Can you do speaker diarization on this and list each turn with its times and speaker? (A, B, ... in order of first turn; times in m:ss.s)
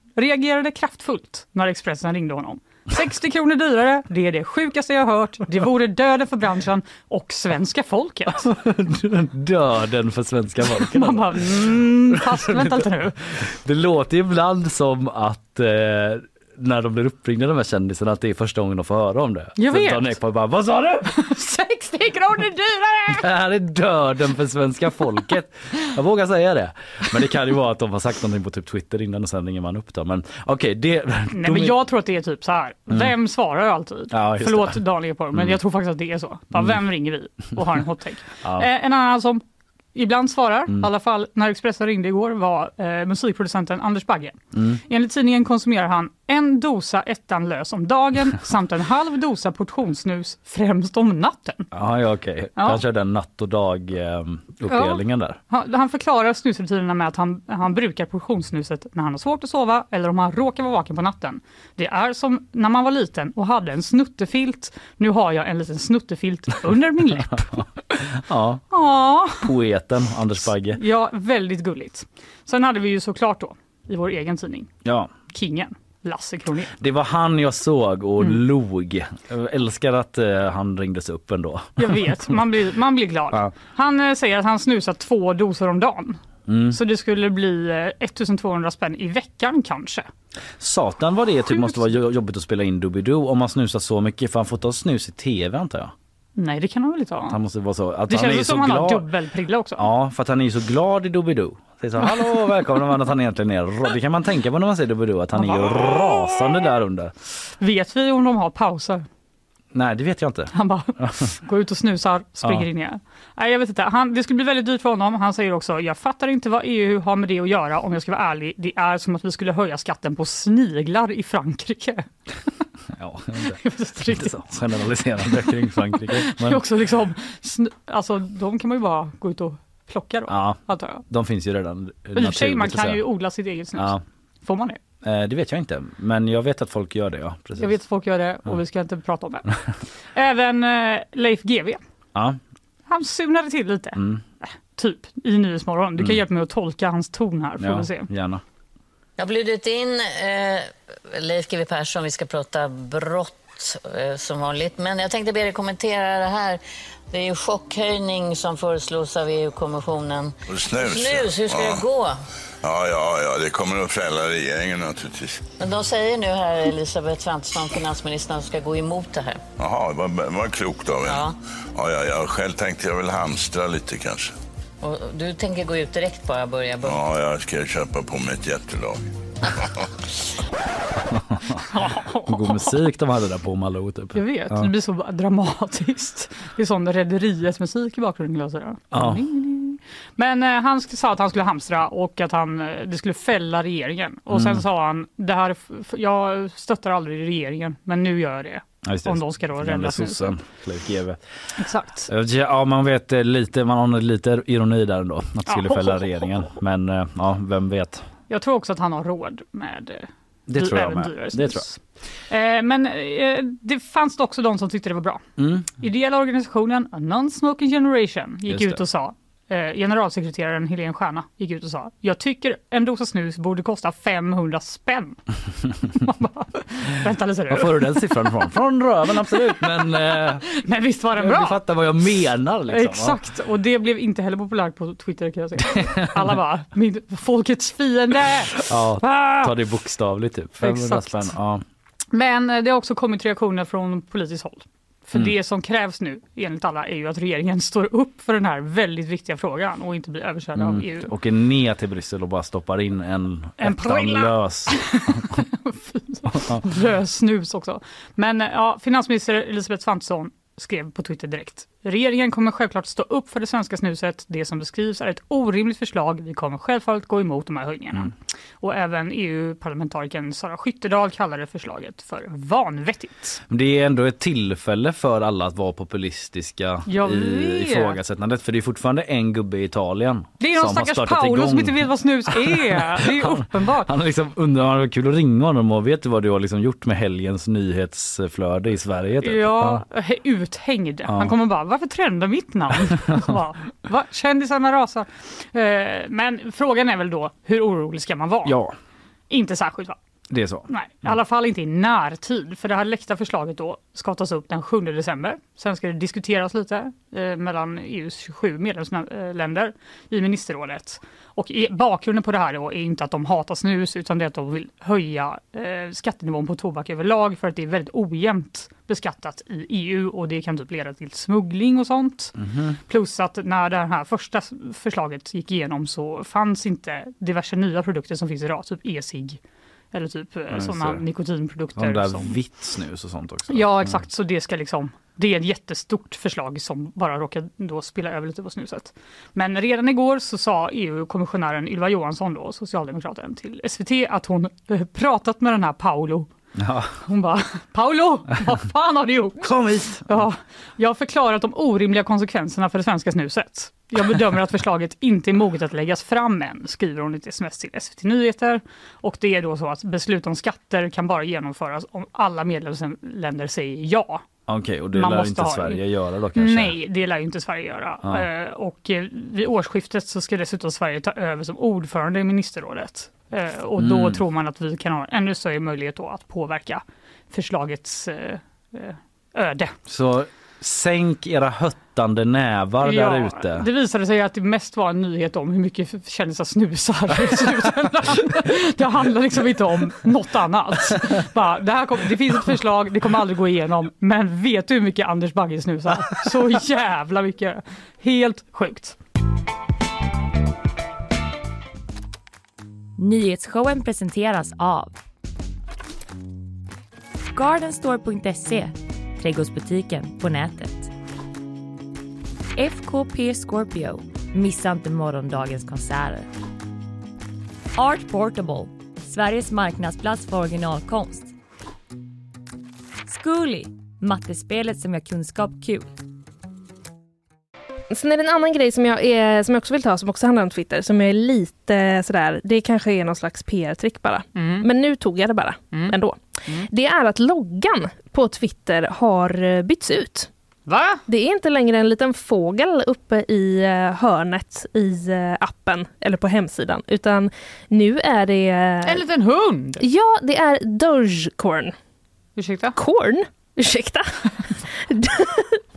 0:00.2-0:08.5 A
0:08.4-0:12.9 B
0:10.8-0:13.2 A
0:13.4-0:21.1 B
0:19.6-0:20.1 A
0:21.1-0:23.2 A
0:23.1-0:31.8 B
0:31.3-0:39.4 A
0:34.1-0:34.8 B
0:39.9-0:51.7 A
0:44.5-0:44.8 B
0:51.7-0:55.4 B
0:54.7-1:07.6 A
1:08.1-1:08.6 B
1:08.7-1:09.5 A
1:09.4-1:10.8 B
1:10.8-1:14.7 A
1:14.8-1:15.1 B
1:15.3-1:16.8 A
1:16.8-1:22.0 B
1:21.8-1:30.1 A
1:26.5-1:26.8 B
1:30.6-1:35.9 B
1:31.5-1:31.8 A
1:36.4-1:37.4 A
1:37.3-1:39.0 B
1:38.1-1:39.8 A
1:39.8-1:47.1 B
1:45.4-1:46.5 A
1:47.6-1:49.0 A
1:49.7-1:51.2 B
1:50.5-2:02.1 A
2:02.9-2:06.6 B
2:03.6-2:04.4 A
2:06.0-2:11.0 A
2:10.3-2:13.0 B
2:12.2-2:14.8 A
2:13.8-2:14.0 B
2:15.0-2:17.7 B
2:17.6-2:19.5 A
2:20.1-2:21.8 A
2:22.9-2:28.1 A
2:24.0-2:24.2 B
2:27.6-2:28.4 B
2:29.2-2:36.6 C
2:37.1-2:42.2 C
2:40.5-2:41.8 D
2:42.6-2:45.5 D
2:45.6-2:49.4 C
2:49.6-2:54.3 D
2:51.0-2:51.4 C
2:54.8-2:56.9 C
2:56.8-2:59.0 D
3:01.1-3:01.6 B
3:01.7-3:02.8 A
3:02.2-3:04.7 B
3:04.1-3:20.4 A
3:08.9-3:09.2 B
3:14.3-3:14.6 B
3:18.9-3:21.2 B
3:21.6-3:22.1 A
3:22.1-3:28.1 B
3:25.5-3:26.2 A
3:28.3-3:35.2 A
3:30.5-3:31.6 B
3:35.4-3:35.7 B
3:35.8-3:45.2 A
3:38.5-3:38.8 B
3:45.9-3:48.3 A
3:47.5-3:50.5 B
3:49.3-3:51.6 A
3:51.2-3:53.2 B
3:52.7-3:59.5 A
3:55.7-3:56.3 B
3:58.7-4:01.6 B
4:00.6-4:01.3 A
4:02.1-4:11.1 A
4:10.6-4:15.4 B
4:13.6-4:33.4 A
4:16.4-4:16.6 B
4:33.5-4:49.8 B
4:36.9-4:38.0 A
4:40.4-4:43.9 A
4:49.2-4:58.6 A
4:51.1-4:51.3 B
4:58.4-4:58.7 B
4:59.3-5:00.0 A
5:00.3-5:00.7 B
5:00.7-5:22.4 A
5:22.4-5:22.8 B
5:22.9-5:29.4 A
5:29.9-5:32.4 A
5:30.5-5:31.0 B
5:31.8-5:34.0 B
5:33.5-5:46.3 A
5:46.6-5:46.9 B
5:47.0-5:49.5 A
5:49.4-5:50.2 B
5:50.1-6:04.2 A
6:04.5-6:06.8 B
6:04.9-6:05.8 A
6:06.4-6:19.7 A
6:13.8-6:14.2 B
6:19.9-6:23.7 B
6:22.8-6:39.0 A
6:43.0-6:45.0 E
6:47.3-6:50.9 E
6:52.6-6:56.3 E
6:57.8-7:01.3 E
7:03.1-7:05.9 E
7:07.9-7:20.3 F
7:14.4-7:14.7 A
7:20.7-7:21.0 A
7:21.1-7:29.0 F
7:28.8-7:29.8 A
7:29.8-7:31.7 F
7:32.4-7:32.8 A
7:32.8-7:35.6 F